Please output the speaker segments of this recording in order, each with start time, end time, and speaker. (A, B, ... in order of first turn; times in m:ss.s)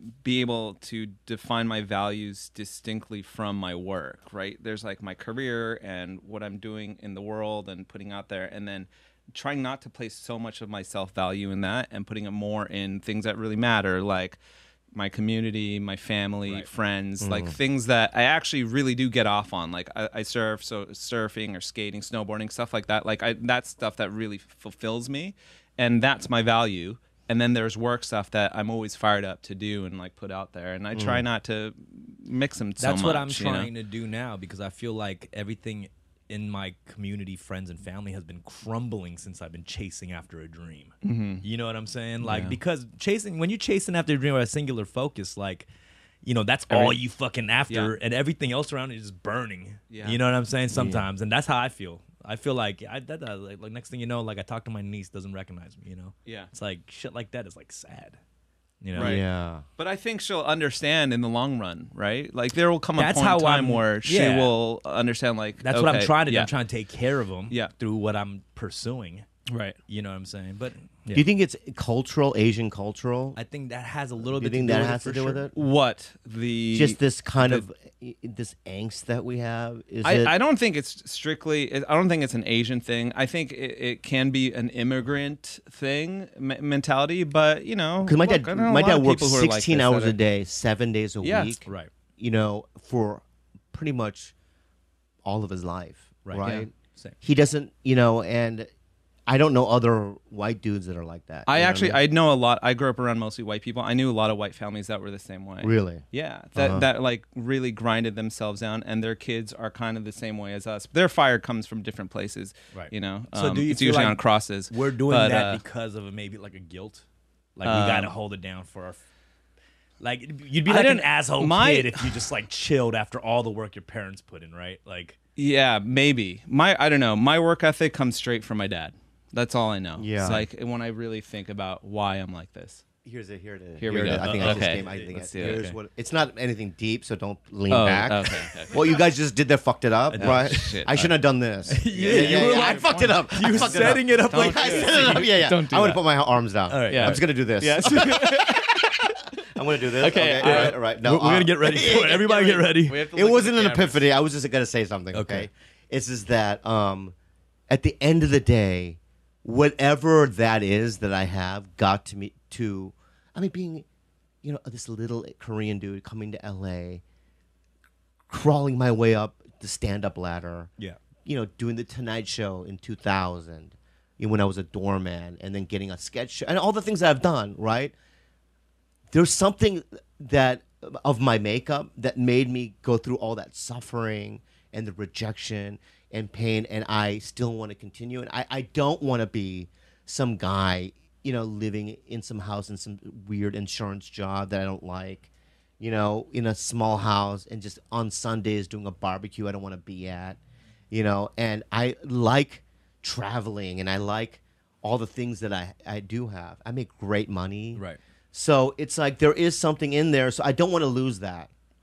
0:00.2-0:14.4 A
0:15.0-0:33.7 A
0:17.2-0:17.6 B
0:30.9-0:31.3 B
0:32.8-0:45.7 C
0:41.0-0:41.4 A
0:42.2-0:42.6 A
0:46.2-0:58.2 C
0:46.7-0:47.0 A
0:49.9-0:50.2 A
0:50.7-0:51.0 B
0:56.3-0:56.5 A
0:58.8-0:59.2 C
0:59.0-0:59.2 A
0:59.0-0:59.6 B
0:59.8-1:06.5 A
1:03.0-1:04.5 C
1:05.6-1:09.2 C
1:09.5-1:09.8 A
1:09.9-1:11.2 C
1:11.1-1:13.4 B
1:13.4-1:15.5 C
1:14.2-1:15.5 B
1:15.6-1:17.6 A
1:16.7-1:20.3 B
1:20.0-1:30.2 A
1:28.0-1:31.6 B
1:31.2-1:31.6 A
1:32.2-1:34.3 B
1:35.2-1:38.7 B
1:36.3-1:37.2 C
1:39.3-1:42.0 B
1:41.5-1:55.6 A
1:45.6-1:46.0 B
1:46.6-1:46.9 B
1:52.7-1:57.0 C
1:57.6-1:59.0 C
1:57.6-1:58.1 A
2:00.0-2:05.2 C
2:00.7-2:02.2 A
2:05.4-2:12.8 A
2:10.0-2:10.5 B
2:13.0-2:28.7 B
2:13.8-2:15.6 A
2:13.9-2:15.8 C
2:17.7-2:18.9 A
2:20.1-2:21.1 C
2:20.2-2:20.9 A
2:21.7-2:25.3 C
2:21.9-2:26.0 A
2:26.7-2:27.2 C
2:26.9-2:29.2 A
2:27.8-2:28.4 C
2:29.5-2:37.2 B
2:30.0-2:30.8 A
2:30.4-2:33.0 C
2:32.0-2:34.0 A
2:35.1-2:35.5 C
2:37.7-2:43.9 B
2:44.4-2:47.0 B
2:48.3-2:50.7 B
2:51.2-2:57.9 B
2:59.1-3:20.4 B
3:20.9-3:31.5 B